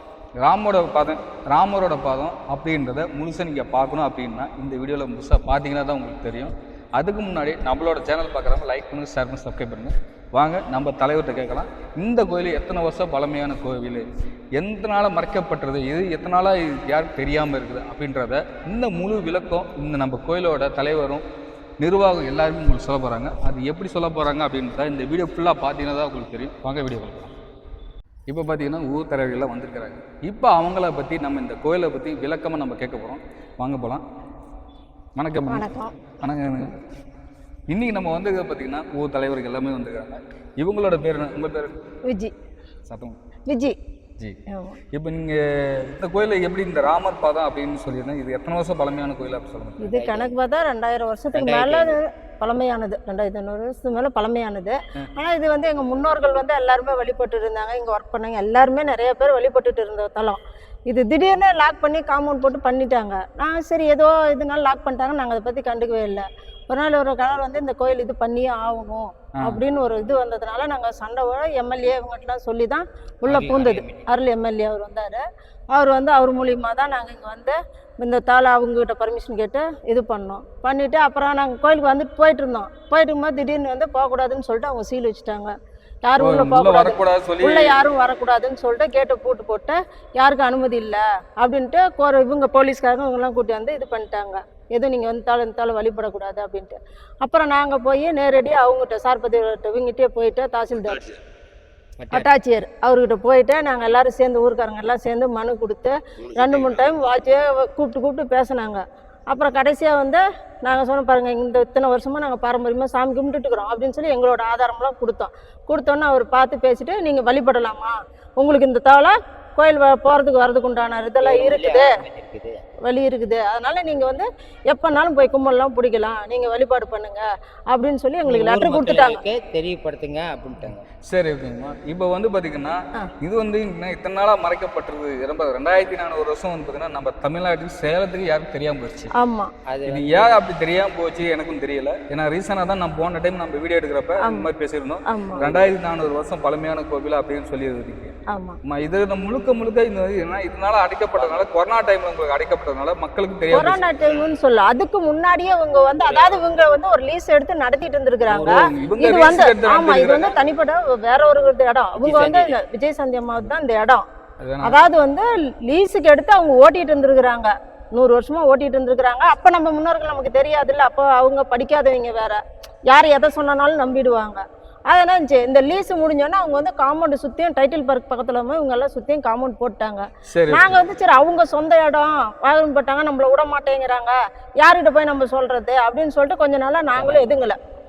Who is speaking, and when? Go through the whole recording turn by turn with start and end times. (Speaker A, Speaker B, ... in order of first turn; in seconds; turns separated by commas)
Speaker A: 0.4-21.2, Speaker A: 21.8-27.3, Speaker A: 28.3-34.0, Speaker A: 35.1-35.6, Speaker B: 35.5-35.9, Speaker A: 36.2-36.8, Speaker A: 37.7-41.7, Speaker B: 42.1-42.3, Speaker A: 42.9-43.1, Speaker B: 43.5-43.7, Speaker B: 44.5-44.8, Speaker A: 44.9-49.9, Speaker B: 49.8-101.2, Speaker C: 49.9-50.3, Speaker C: 51.3-52.0, Speaker C: 73.2-74.0, Speaker A: 86.2-87.8, Speaker C: 102.0-102.3, Speaker B: 102.1-121.9, Speaker C: 121.2-122.6, Speaker B: 122.9-129.2, Speaker C: 128.2-130.8, Speaker A: 131.1-139.1, Speaker B: 139.2-139.5, Speaker C: 139.7-140.3, Speaker A: 139.8-148.1, Speaker B: 145.1-145.4, Speaker C: 145.4-145.7, Speaker B: 148.3-148.6, Speaker A: 148.6-153.8, Speaker C: 151.1-151.5, Speaker B: 153.5-164.0, Speaker A: 158.2-160.3, Speaker C: 162.0-162.6, Speaker A: 164.4-164.8, Speaker B: 164.6-187.6, Speaker A: 180.3-180.8